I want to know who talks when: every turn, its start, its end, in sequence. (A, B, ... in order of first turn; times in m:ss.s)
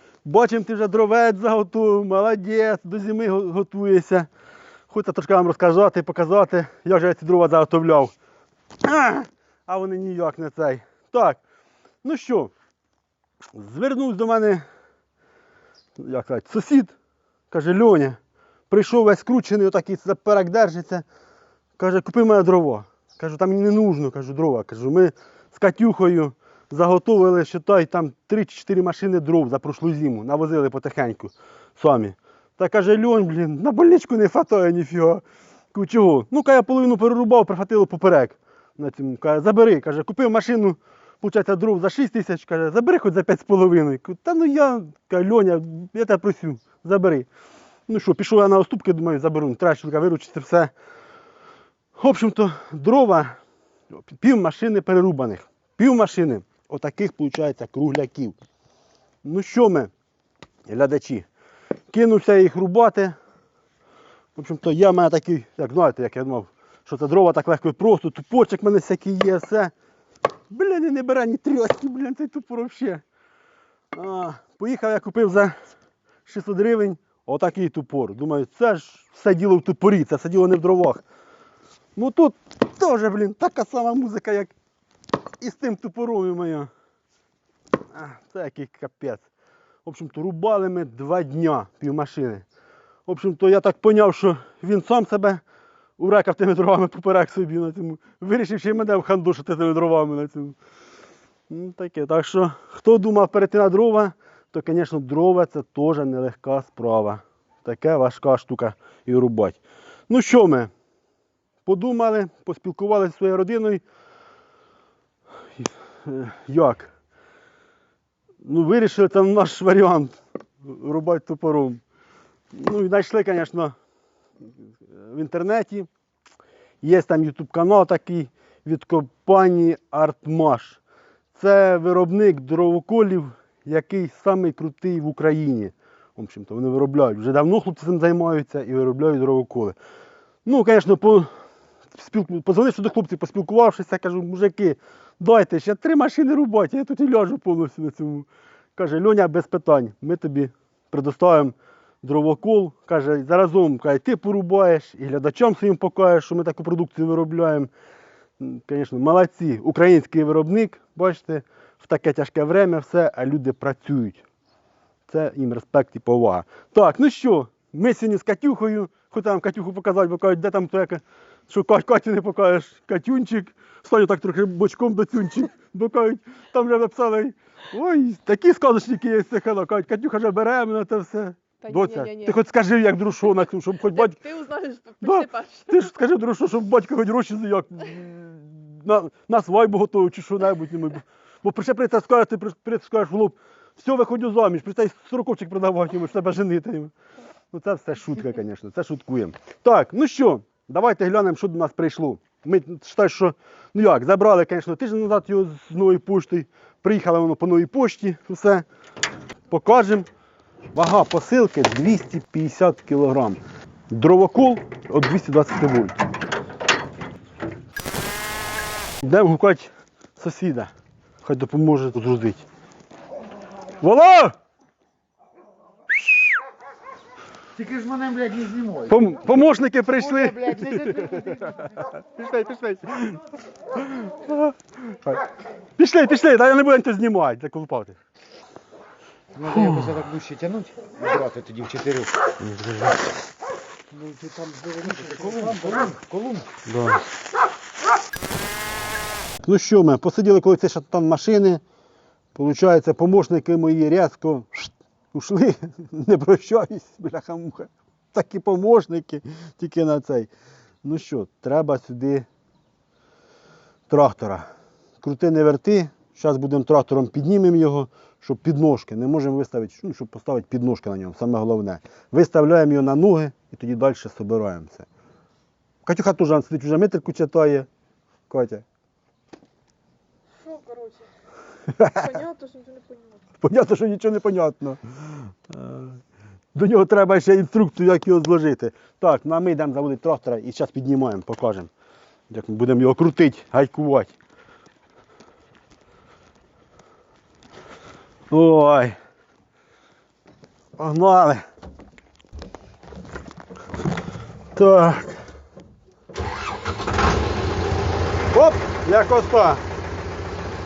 0:00.2-0:04.3 A
0:04.9-0:08.1 A
0:08.8-0:11.4 A
0:12.0-0:12.5 A
0:13.5-0:14.6 A
0:16.0-0:16.9 A
0:17.5-0:18.2 A
0:18.7-0:21.0 A
0:21.8-0:47.3 A
0:47.9-0:50.7 A
0:52.0-0:53.4 A
0:53.9-0:58.4 A
0:59.2-0:59.9 A
1:00.7-1:01.3 A
1:01.9-1:03.1 A
1:04.3-1:09.7 A
1:10.5-1:13.0 A
1:13.9-1:15.6 A
1:16.2-1:21.0 A
1:22.0-1:24.5 A
1:25.4-1:26.7 A
1:27.9-1:29.2 A
1:29.8-1:32.4 A
1:33.1-1:35.4 A
1:36.0-1:40.6 A
1:41.5-1:50.7 A
1:51.6-1:53.8 A
1:55.6-1:56.9 A
1:58.4-2:01.8 A
2:02.5-2:03.7 A
2:04.9-2:05.9 A
2:06.8-2:10.8 A
2:11.3-2:19.8 A
2:20.4-2:21.3 A
2:21.9-2:37.7 A
2:38.4-2:44.2 A
2:45.1-3:04.2 A
3:01.6-3:02.4 B
3:03.8-3:05.8 B
3:05.0-3:16.9 A
3:17.5-3:28.6 A
3:29.5-3:30.1 A
3:30.7-3:36.0 A
3:39.0-3:40.7 A
3:41.2-3:42.4 A
3:43.8-3:44.3 A
3:47.6-3:48.7 C
3:48.8-3:55.2 A
3:55.8-3:58.0 A
3:59.4-4:02.3 C
3:59.5-4:00.1 A
4:02.4-4:02.9 A
4:04.0-4:06.5 C
4:06.6-4:07.0 A
4:09.4-4:11.6 A
4:12.3-4:20.3 A
4:20.8-4:22.2 A
4:23.9-4:24.4 A
4:25.0-4:34.9 A
4:35.8-4:37.7 A
4:38.3-4:38.6 A
4:40.4-4:41.0 B
4:41.7-4:42.2 A
4:42.0-4:43.2 B
4:43.4-4:46.0 A
4:46.5-4:51.7 A
4:52.3-4:54.1 A
4:58.3-4:59.0 A
5:00.8-5:01.4 A
5:04.5-5:05.2 A
5:08.3-5:09.6 A